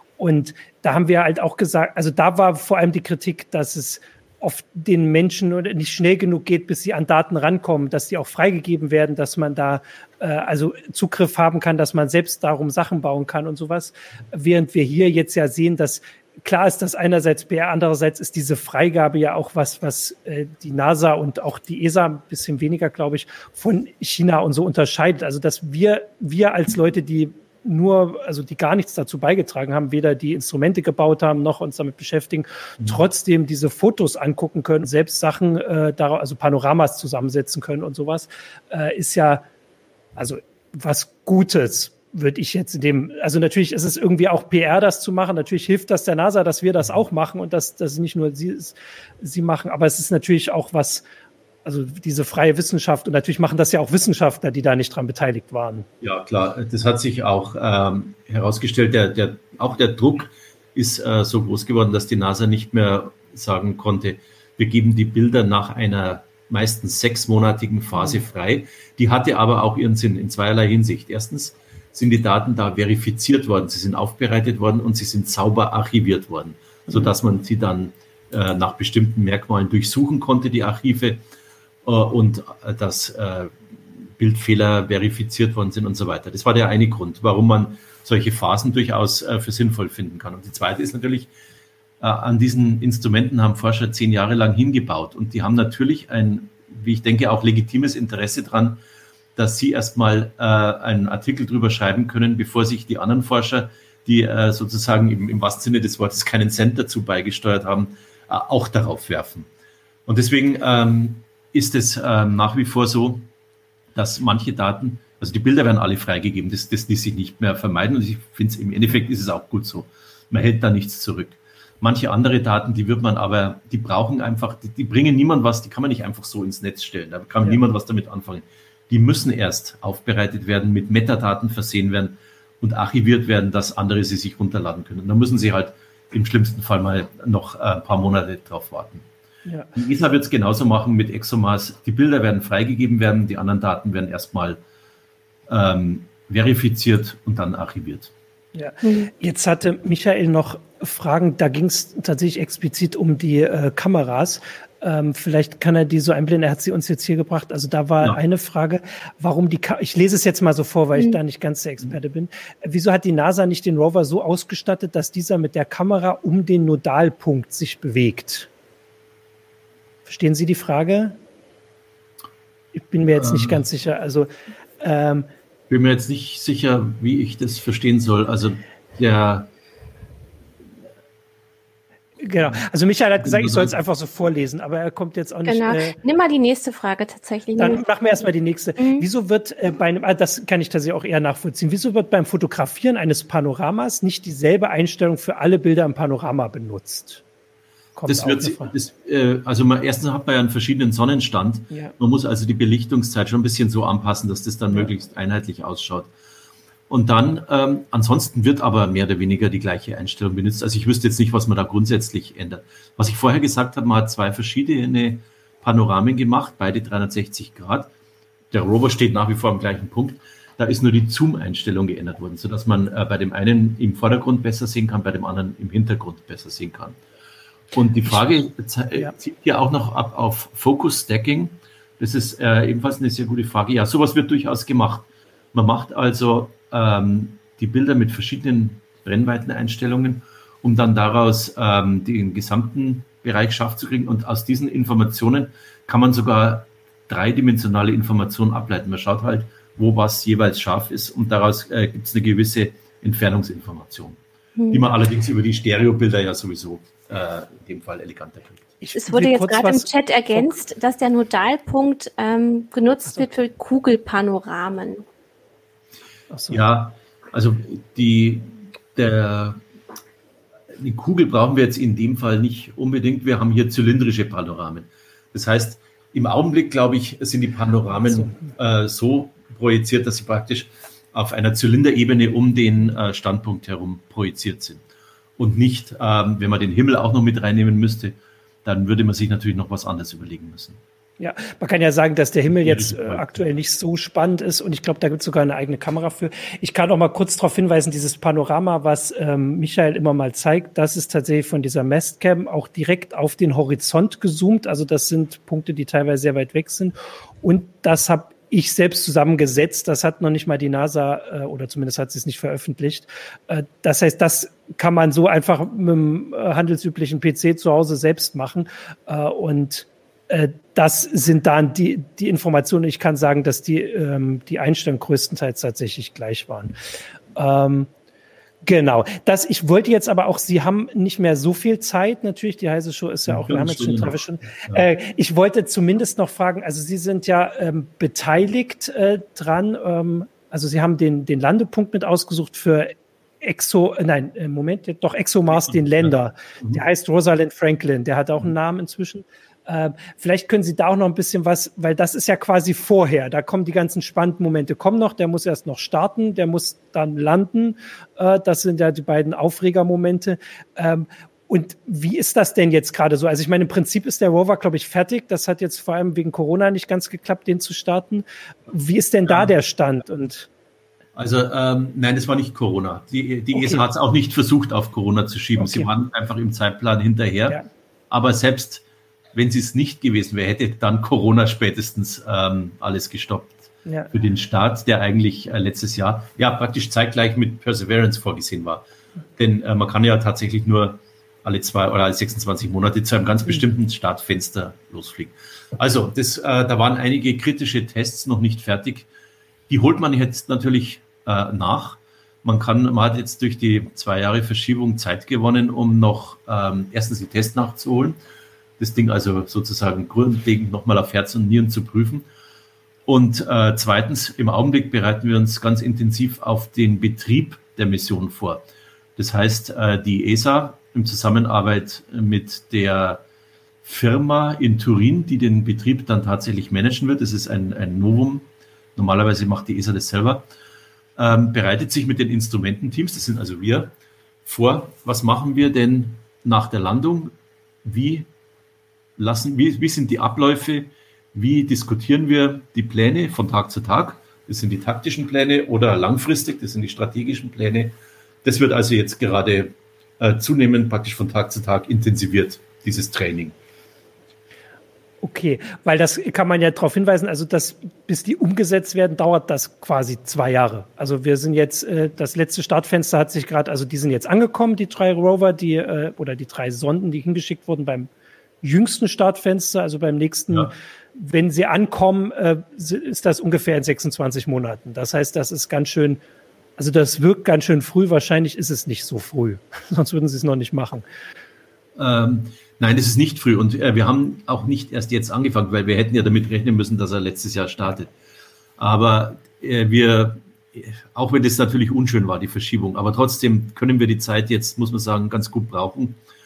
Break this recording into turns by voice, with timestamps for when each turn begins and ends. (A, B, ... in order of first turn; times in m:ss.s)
0:00.2-0:39.4 A
0:40.2-0:51.0 A
0:51.6-0:55.9 A
0:56.0-1:21.2 B
1:08.0-1:08.2 A
1:21.8-1:23.6 B
1:24.2-1:31.3 B
1:32.0-1:38.8 B
1:39.4-1:49.5 B
1:50.0-1:53.3 B
1:53.9-2:19.0 B
2:19.4-2:19.7 A
2:19.7-2:24.6 B
2:25.5-2:28.1 B
2:28.5-2:48.5 A
2:28.8-2:29.1 C
2:50.0-2:51.2 A
2:52.7-2:54.3 A
2:53.1-2:53.6 B
2:54.8-2:55.3 A
2:55.7-2:59.5 B
3:02.2-3:06.0 A
3:03.2-3:03.7 B
3:05.4-3:07.8 C
3:07.6-3:17.2 A
3:08.8-3:09.0 C
3:18.0-3:18.7 A
3:18.1-3:26.1 B
3:26.9-3:37.9 B
3:38.5-3:47.0 B
3:47.7-4:14.2 B
4:14.6-4:14.9 C
4:14.7-4:18.7 B
4:18.8-4:20.5 A
4:19.0-4:25.0 C
4:26.3-4:26.6 A
4:26.5-4:29.6 B
4:30.8-4:44.8 B
4:45.4-4:50.8 B
4:51.2-5:26.7 A
4:52.6-4:53.2 B
5:27.4-5:27.9 A
5:28.6-6:10.5 A
5:33.3-5:34.8 B
5:45.5-5:46.8 B
6:11.1-6:17.6 B
6:13.5-6:13.8 A
6:15.6-6:15.9 A
6:18.1-6:28.8 B
6:29.4-6:39.1 B
6:39.7-6:48.2 B
6:48.8-6:52.2 B
6:53.0-6:58.6 B
6:59.2-7:03.2 B
7:03.8-7:08.4 B
7:09.0-7:10.4 B
7:11.2-7:13.9 B
7:14.4-7:17.3 B
7:17.8-7:18.3 B
7:19.2-7:33.5 B
7:35.2-7:48.1 A
7:48.6-7:56.2 A
7:56.8-8:01.0 A
8:02.0-8:08.1 B
8:08.8-8:16.2 B